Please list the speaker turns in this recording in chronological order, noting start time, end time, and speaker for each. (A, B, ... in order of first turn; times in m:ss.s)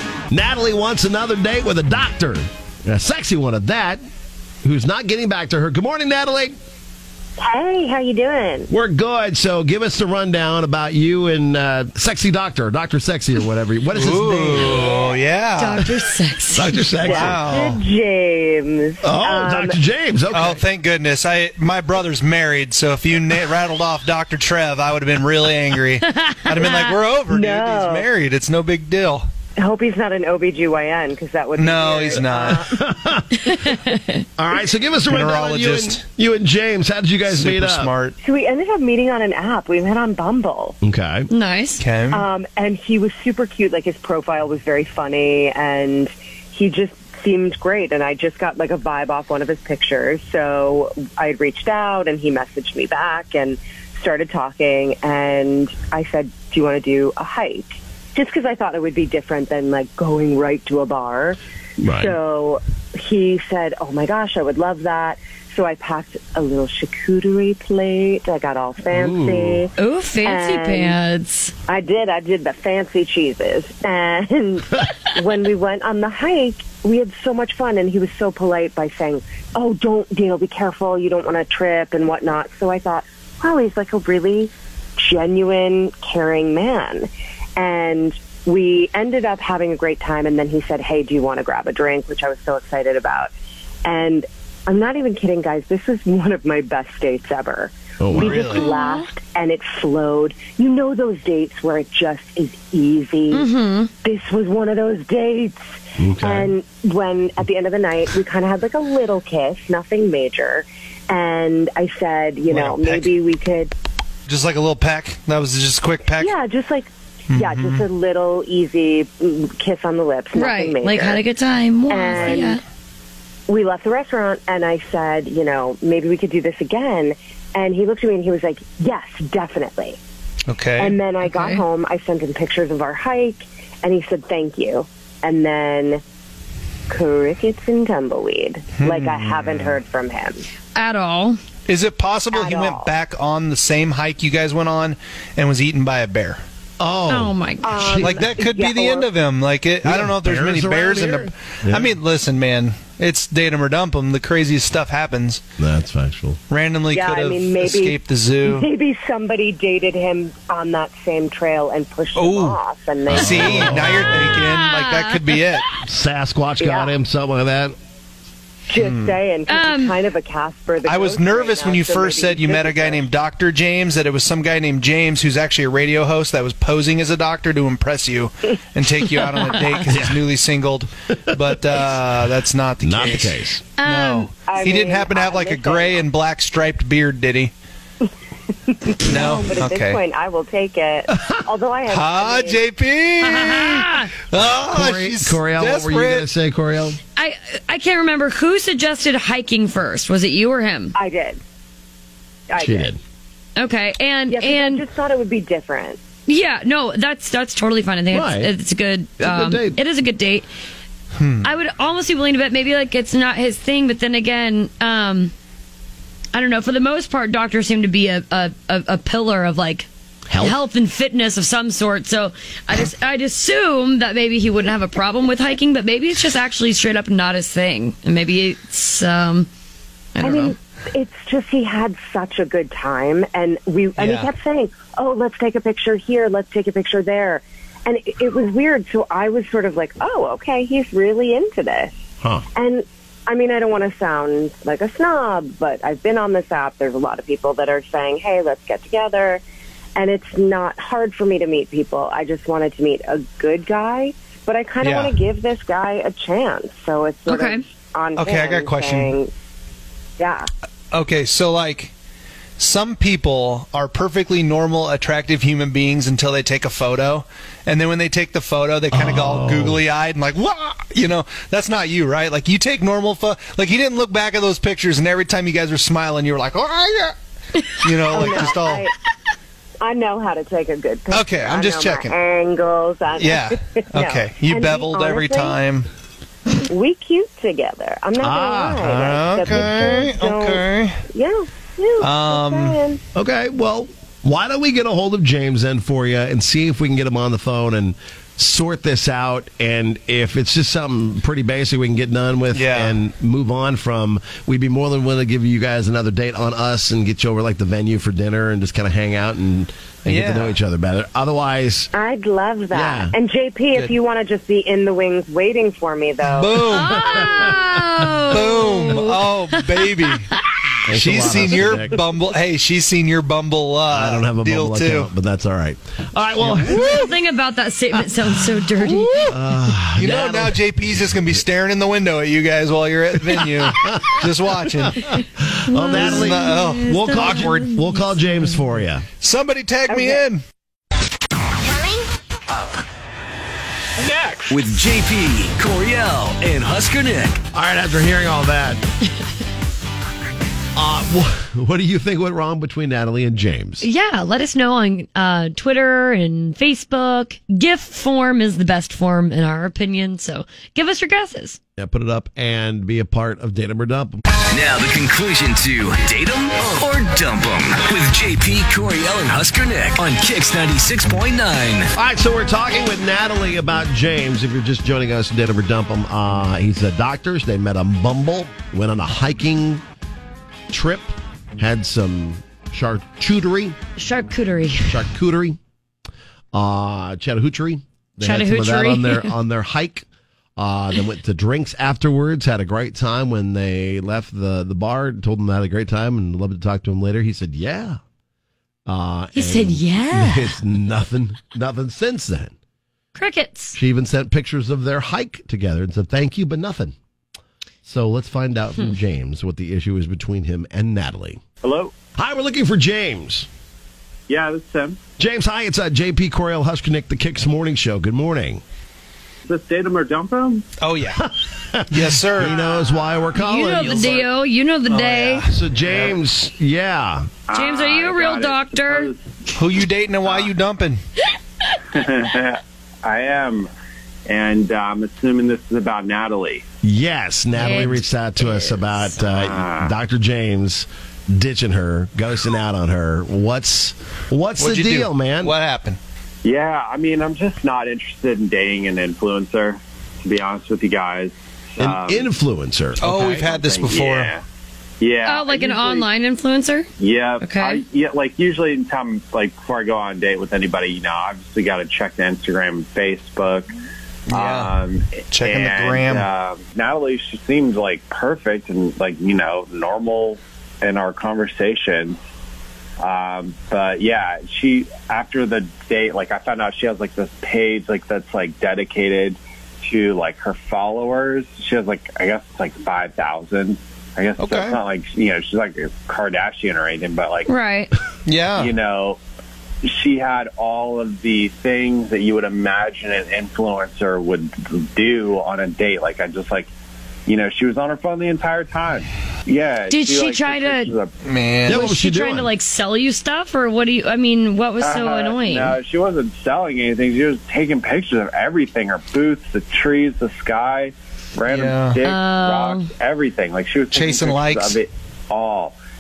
0:00.3-0:04.0 A
0:04.6-0:06.6 A
0:07.4-0:08.7 B
0:08.7-0:15.0 A
0:13.9-0:15.9 C
0:15.6-0:16.8 D
0:16.5-0:17.4 A
0:17.0-0:19.8 B
0:17.0-0:17.8 C
0:19.0-0:20.6 A
0:20.3-0:29.3 C
0:26.0-0:27.0 D
0:27.3-0:28.0 B
0:29.6-0:32.8 B
0:31.6-0:32.6 C
0:32.5-0:33.5 A
0:33.5-0:34.2 D
0:34.4-0:37.9 A
0:35.1-0:36.0 C
0:37.3-0:38.2 C
0:38.2-0:40.8 B
0:40.8-0:41.3 A
0:41.3-0:41.8 D
0:41.8-0:42.2 C
0:42.1-1:01.4 B
1:01.8-1:02.2 A
1:01.9-1:09.7 B
1:08.9-1:09.4 C
1:09.8-1:11.5 D
1:10.2-1:11.0 B
1:11.6-1:33.3 B
1:33.8-1:43.5 B
1:38.0-1:38.4 A
1:38.2-1:38.7 C
1:38.6-1:39.0 D
1:43.3-1:43.9 D
1:44.0-1:53.7 B
1:46.0-1:46.5 A
1:52.5-1:53.1 C
1:54.3-1:56.3 C
1:56.2-2:01.2 B
1:57.3-1:57.8 C
2:00.3-2:02.6 D
2:01.9-2:02.6 B
2:03.5-2:10.0 B
2:10.5-2:11.0 C
2:10.8-2:16.0 B
2:11.2-2:11.6 D
2:16.9-2:20.4 B
2:18.8-2:19.8 C
2:20.7-2:21.4 D
2:21.7-2:26.4 C
2:22.3-2:22.9 B
2:26.8-2:28.2 A
2:27.1-2:28.0 D
2:27.6-2:29.1 B
2:28.0-2:35.4 C
2:29.8-2:31.9 A
2:35.6-2:36.4 A
2:36.5-2:38.7 C
2:36.9-2:44.0 B
2:42.1-2:42.6 C
2:43.1-2:45.6 C
2:43.1-2:44.5 A
2:44.5-2:45.7 D
2:45.8-2:47.7 A
2:46.6-2:46.9 B
2:48.7-2:53.0 B
2:48.8-2:49.2 C
2:49.5-2:49.9 D
2:50.8-3:07.5 C
2:59.3-2:59.7 D
2:59.9-3:00.2 A
3:02.8-3:03.6 A
3:03.8-3:04.3 D
3:04.4-3:06.0 B
3:08.7-3:12.6 B
3:09.1-3:10.0 C
3:11.9-3:16.2 C
3:13.2-3:14.1 D
3:14.3-3:17.0 A
3:17.2-3:20.9 D
3:20.9-3:21.4 B
3:22.5-3:22.9 B
3:22.6-3:23.0 A
3:23.6-3:24.8 D
3:24.3-3:26.0 B
3:26.3-3:30.5 D
3:28.1-3:28.5 A
3:29.2-3:29.8 A
3:31.2-3:31.5 C
3:31.4-3:35.3 D
3:36.3-3:49.5 D
3:40.3-3:40.6 A
3:50.1-3:50.5 D
3:50.2-4:01.9 B
3:54.0-3:54.3 C
4:02.5-4:09.4 B
4:10.0-4:19.3 B
4:14.8-4:15.1 C
4:17.3-4:17.6 D
4:18.2-4:19.1 C
4:20.2-4:20.5 B
4:20.9-4:21.9 C
4:22.6-4:37.1 C
4:28.9-4:29.8 A
4:37.7-4:38.8 C
4:38.1-4:38.9 B
4:39.8-4:45.6 B
4:41.1-4:42.1 C
4:43.2-4:45.9 C
4:46.6-4:53.0 B
4:48.2-4:49.8 A
4:48.8-4:51.0 C
4:52.0-4:52.8 C
4:53.1-5:11.9 A
5:02.5-5:03.0 C
5:10.0-5:10.6 C
5:11.9-5:16.8 B
5:12.7-5:13.1 A
5:16.2-5:17.0 C
5:16.7-5:20.6 D
5:16.9-5:17.7 A
5:18.3-5:20.3 C
5:20.8-5:22.0 A
5:20.9-5:25.1 C
5:23.9-5:27.1 A
5:26.4-5:27.0 C
5:26.7-5:29.3 D
5:28.8-5:29.3 C
5:29.3-5:31.3 A
5:30.0-5:35.1 C
5:34.8-5:39.0 A
5:35.7-5:38.0 D
5:35.9-5:37.4 C
5:39.2-5:40.4 C
5:39.9-5:40.2 B
5:44.0-5:44.4 E
5:44.5-5:47.4 F
5:47.5-5:48.8 A
5:50.8-5:53.8 A
5:53.8-6:01.6 D
6:01.8-6:04.2 A
6:04.5-6:11.9 F
6:11.9-6:19.8 A
6:20.7-6:23.8 A
6:24.0-6:25.0 D
6:24.9-6:25.6 A
6:26.5-6:30.0 A
6:28.2-6:29.4 D
6:30.6-6:38.0 A
6:38.9-6:42.5 A
6:39.3-6:40.6 D
6:43.1-6:43.8 D
6:43.7-6:46.9 A
6:47.8-6:51.4 A
6:51.6-6:51.9 E
6:52.1-6:53.5 A
6:54.3-6:55.0 E
6:55.2-6:58.6 A
6:59.4-7:00.6 E
7:00.8-7:01.2 C
7:01.2-7:04.2 A
7:01.9-7:03.0 C
7:03.3-7:05.5 D
7:03.7-7:04.3 C
7:04.8-7:06.2 C
7:05.5-7:07.3 A
7:07.5-7:09.2 E
7:07.5-7:09.1 D
7:09.5-7:11.0 C
7:10.2-7:10.5 E
7:11.9-7:13.7 E
7:14.3-7:16.6 E
7:16.8-7:25.5 A
7:17.6-7:19.1 D
7:19.3-7:19.9 E
7:24.6-7:26.0 C
7:26.4-7:32.3 E
7:31.8-7:33.1 A
7:33.0-7:34.3 C
7:33.0-7:34.4 E
7:35.0-7:36.1 E
7:35.2-7:36.9 D
7:37.0-7:43.7 E
7:37.4-7:37.8 D
7:44.3-7:44.7 C
7:44.3-7:52.2 E
7:45.3-7:46.3 C
7:53.0-8:07.5 E
8:04.4-8:04.8 C
8:07.5-8:07.9 D
8:08.2-8:08.7 C
8:08.6-8:09.2 E
8:09.8-8:16.7 E
8:17.3-8:21.1 E
8:19.9-8:20.9 D
8:21.2-8:21.8 C
8:21.7-8:22.5 A
8:21.7-8:25.8 D
8:24.8-8:35.8 E
8:31.5-8:32.0 C
8:32.0-8:32.9 D
8:33.9-8:34.8 C